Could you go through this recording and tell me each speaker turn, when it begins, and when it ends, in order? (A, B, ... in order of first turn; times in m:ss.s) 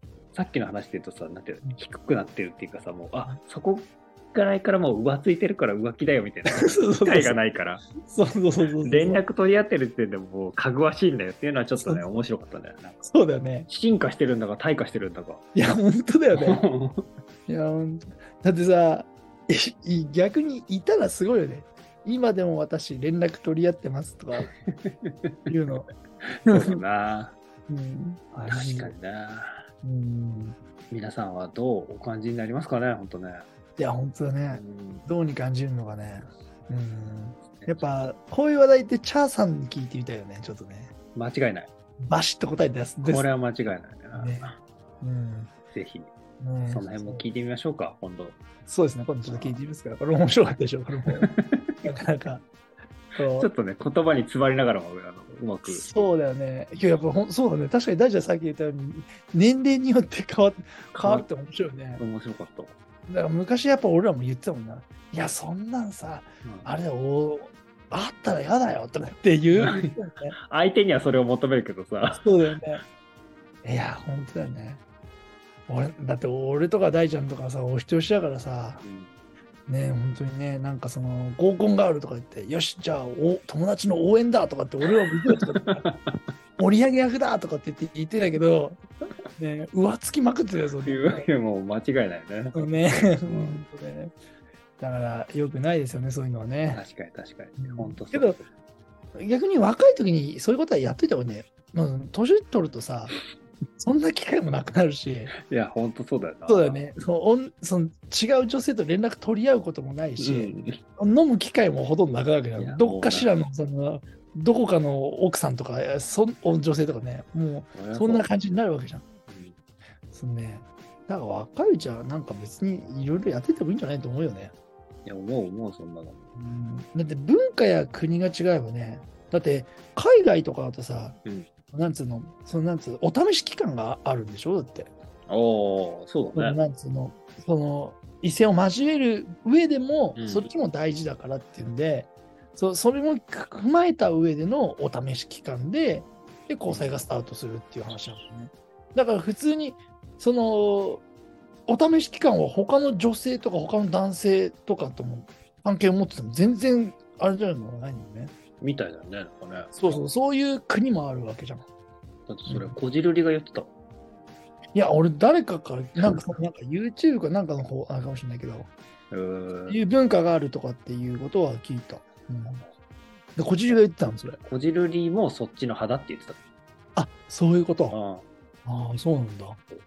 0:00.3-0:07.9 A
0:06.5-0:07.4 B
0:08.0-0:09.2 B
0:08.8-0:13.1 A
0:11.8-0:12.2 B
0:13.0-0:13.7 B
0:13.7-0:15.4 A
0:15.5-0:16.6 B
0:16.3-0:17.1 A
0:17.5-0:24.5 B
0:24.4-0:25.5 A
0:25.5-0:25.9 B
0:26.2-0:27.3 A
0:26.5-0:26.8 B
0:27.7-0:28.9 B
0:28.4-0:29.6 A
0:29.8-0:30.6 B
0:30.9-0:33.4 A
0:33.8-0:40.9 B
0:34.5-0:35.0 A
0:37.6-0:37.9 A
0:41.2-0:41.7 A
0:42.1-0:43.3 B
0:43.0-0:44.6 A
0:44.1-0:45.5 B
0:45.7-0:46.1 A
0:46.4-0:47.2 B
0:46.6-0:48.4 A
0:48.7-0:51.3 B
0:49.3-0:49.6 A
0:51.2-0:51.9 A
0:51.8-0:52.4 B
0:53.2-0:53.5 B
0:53.3-0:56.1 A
0:55.7-1:02.0 B
1:01.0-1:01.3 A
1:02.0-1:02.8 A
1:03.1-1:10.4 B
1:09.6-1:10.0 A
1:10.5-1:12.6 A
1:12.1-1:12.8 B
1:13.6-1:14.8 B
1:15.7-1:18.8 B
1:18.8-1:19.1 A
1:19.7-1:25.8 B
1:24.8-1:26.2 A
1:26.6-1:28.8 B
1:29.4-1:31.3 B
1:30.8-1:32.6 A
1:32.5-1:34.1 B
1:33.3-1:33.7 A
1:34.8-1:36.8 B
1:36.7-1:38.4 A
1:37.6-1:38.4 B
1:39.2-1:43.2 B
1:43.8-1:45.3 B
1:45.5-1:46.8 A
1:46.5-1:59.0 B
1:50.2-1:50.8 A
1:52.6-1:53.3 A
1:57.7-1:58.3 A
1:59.3-1:59.6 A
2:00.1-2:04.5 B
2:05.0-2:06.3 A
2:06.4-2:11.2 B
2:11.7-2:14.9 B
2:15.3-2:16.6 A
2:16.3-2:31.0 B
2:20.2-2:20.5 A
2:26.7-2:27.0 A
2:31.7-2:38.3 B
2:38.6-2:40.0 A
2:39.7-2:41.7 B
2:42.3-2:43.7 A
2:42.5-2:42.8 B
2:44.7-2:48.7 B
2:46.0-2:46.3 A
2:49.1-2:49.8 A
2:49.7-2:52.6 B
2:53.4-2:54.4 B
2:54.4-2:56.4 A
2:57.0-2:58.0 B
2:57.9-2:58.2 A
2:58.7-2:59.6 B